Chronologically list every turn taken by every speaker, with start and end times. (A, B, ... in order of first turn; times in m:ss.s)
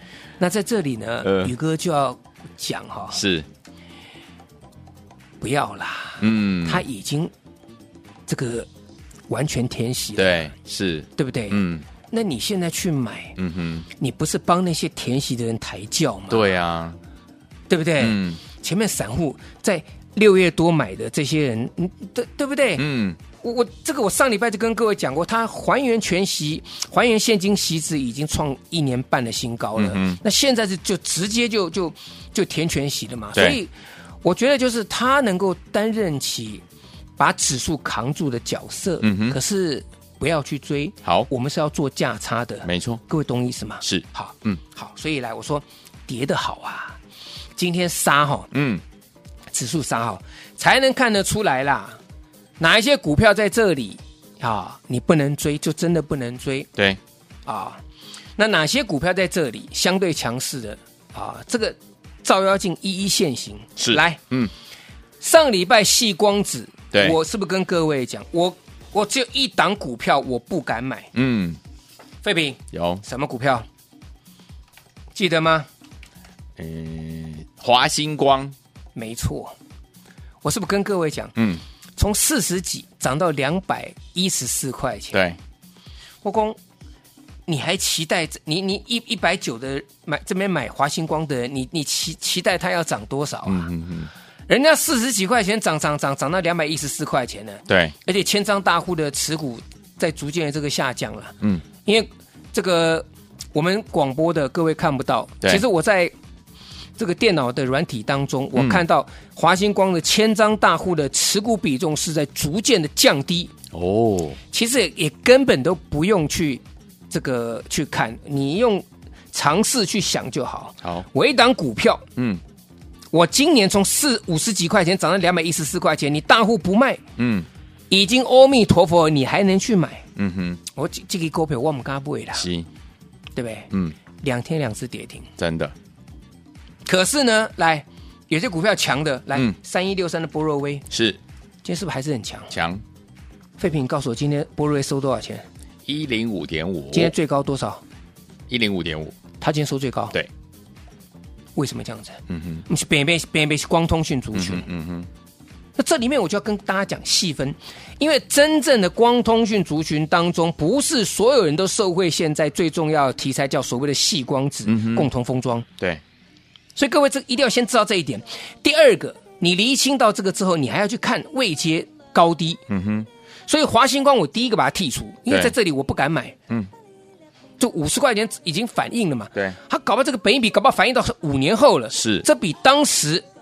0:00.4-0:03.2 A
0:01.2-0:01.5 B
0:03.1-0:03.5 B
0:05.4-0:07.3 A
0:06.2-0:06.8 B
0:08.3-0:08.7 A
0:09.3-0:10.5 A
0:10.1-0:11.8 B
0:11.2-0:13.4 A
0:13.4-0:13.9 B
0:14.0-0:16.5 A
0:16.3-0:17.0 B
0:17.7-0:22.8 A
0:18.0-0:18.4 B
0:22.8-0:23.2 B
0:23.4-0:33.7 A
0:29.8-0:30.2 B
0:34.2-0:36.6 A
0:37.2-0:47.0 A
0:39.0-0:39.4 B
0:41.0-0:41.3 B
0:42.6-0:43.0 B
0:43.8-0:44.6 B
0:47.6-0:48.5 A
0:48.5-0:48.8 B
0:49.5-0:52.0 A
0:52.6-0:56.7 A
0:57.4-0:57.8 A
0:58.4-1:04.2 A
1:03.8-1:04.5 B
1:05.2-1:11.1 A
1:06.9-1:07.2 B
1:11.1-1:11.6 B
1:12.2-1:13.6 A
1:12.7-1:13.0 B
1:15.1-1:15.7 A
1:16.6-1:18.5 B
1:18.9-1:19.5 A
1:20.4-1:21.3 A
1:21.4-1:21.6 B
1:22.0-1:25.2 A
1:25.1-1:25.4 B
1:26.2-1:26.6 A
1:27.5-1:33.7 A
1:33.4-1:34.1 B
1:34.5-1:46.1 A
1:37.7-1:37.9 B
1:47.0-1:53.5 A
1:48.5-1:48.8 B
1:53.7-1:54.4 B
1:54.5-2:02.0 A
2:02.2-2:02.4 B
2:03.1-2:07.0 A
2:07.2-2:07.5 B
2:07.9-2:10.0 A
2:10.2-2:10.6 B
2:10.7-2:12.5 A
2:12.3-2:12.7 B
2:13.3-2:13.7 A
2:13.7-2:14.0 B
2:14.2-2:15.3 A
2:15.4-2:15.7 B
2:16.8-2:20.8 A
2:20.9-2:21.2 B
2:21.6-2:22.5 A
2:22.5-2:22.8 B
2:23.6-2:25.4 A
2:25.8-2:27.1 B
2:26.9-2:27.8 A
2:28.5-2:29.2 B
2:29.4-2:30.2 A
2:31.6-2:34.7 A
2:32.3-2:32.6 B
2:34.3-2:35.1 B
2:35.8-2:45.7 A
2:44.6-2:45.1 B
2:46.8-2:52.6 A
2:52.7-2:53.1 B
2:53.5-2:56.4 A
2:55.3-2:55.5 B
2:57.6-3:03.2 A
3:01.9-3:02.2 B